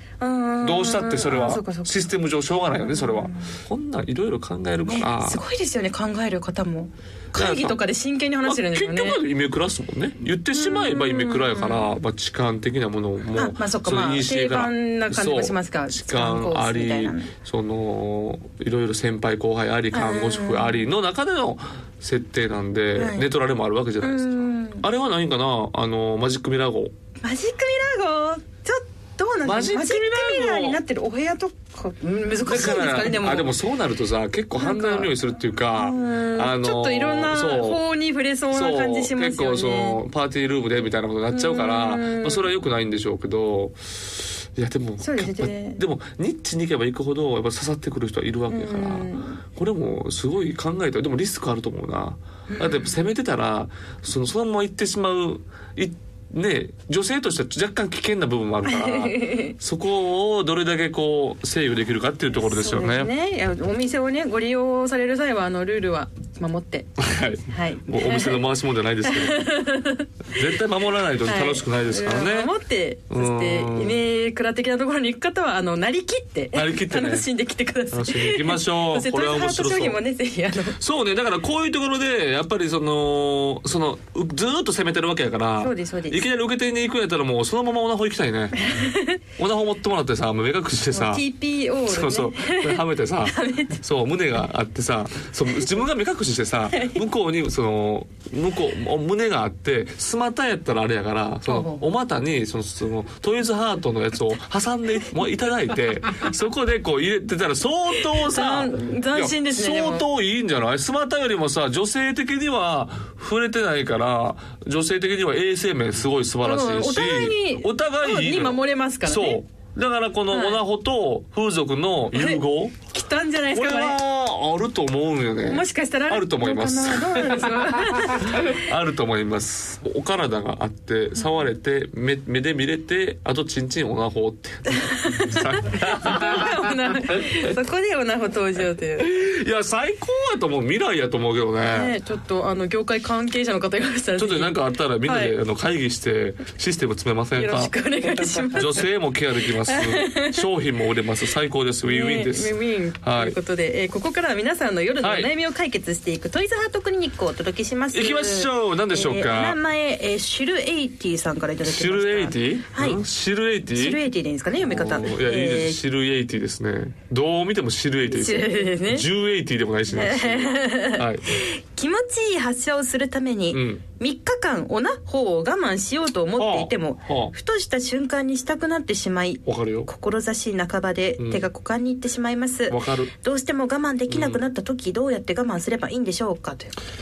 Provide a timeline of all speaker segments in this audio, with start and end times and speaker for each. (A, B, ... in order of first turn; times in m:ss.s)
0:00.2-0:02.0 A
0:00.6-0:05.4 B
0:02.8-0:03.6 A
0:04.8-0:09.2 A
0:07.3-0:07.8 B
0:08.4-0:26.9 B
0:10.5-0:11.9 A
0:13.4-0:17.3 A
0:19.9-0:20.8 A
0:23.0-0:23.3 A
0:24.0-0:24.8 A
0:27.2-0:33.5 A
0:29.4-0:30.8 B
0:32.4-0:37.9 B
0:34.6-0:35.1 A
0:35.8-0:40.0 A
0:38.5-1:03.1 B
0:41.3-0:42.5 A
0:45.0-0:45.8 A
0:48.5-0:49.4 A
0:52.5-0:52.9 A
0:58.6-0:59.6 A
1:02.4-1:06.9 A
1:07.0-1:09.7 B
1:07.5-1:08.4 A
1:09.0-1:10.1 A
1:10.3-1:12.6 B
1:11.2-1:20.8 A
1:13.1-1:14.0 B
1:16.5-1:17.3 B
1:17.9-1:20.0 B
1:20.6-1:28.8 B
1:25.6-1:26.2 A
1:28.6-1:29.2 A
1:29.3-1:31.3 B
1:30.9-1:33.8 A
1:31.8-2:02.9 B
1:36.7-1:37.0 A
1:41.5-1:41.8 A
1:48.2-1:50.1 A
1:56.4-1:59.4 A
2:00.3-2:00.6 A
2:02.1-2:04.0 A
2:03.5-2:16.8 B
2:05.5-2:08.6 A
2:14.7-2:19.1 A
2:19.0-2:22.0 B
2:21.7-2:25.4 A
2:24.2-2:27.8 B
2:27.4-2:28.9 A
2:28.5-2:33.4 B
2:29.6-2:30.4 A
2:31.9-2:43.0 A
2:35.0-2:35.3 B
2:37.9-2:39.6 B
2:41.6-2:44.0 B
2:43.7-2:45.8 A
2:44.6-2:51.3 B
2:48.1-2:49.1 A
2:49.9-3:06.8 A
2:53.5-2:53.8 B
2:56.4-2:57.3 B
2:59.5-2:59.9 B
3:01.2-3:01.5 B
3:02.7-3:03.1 B
3:04.1-3:04.4 B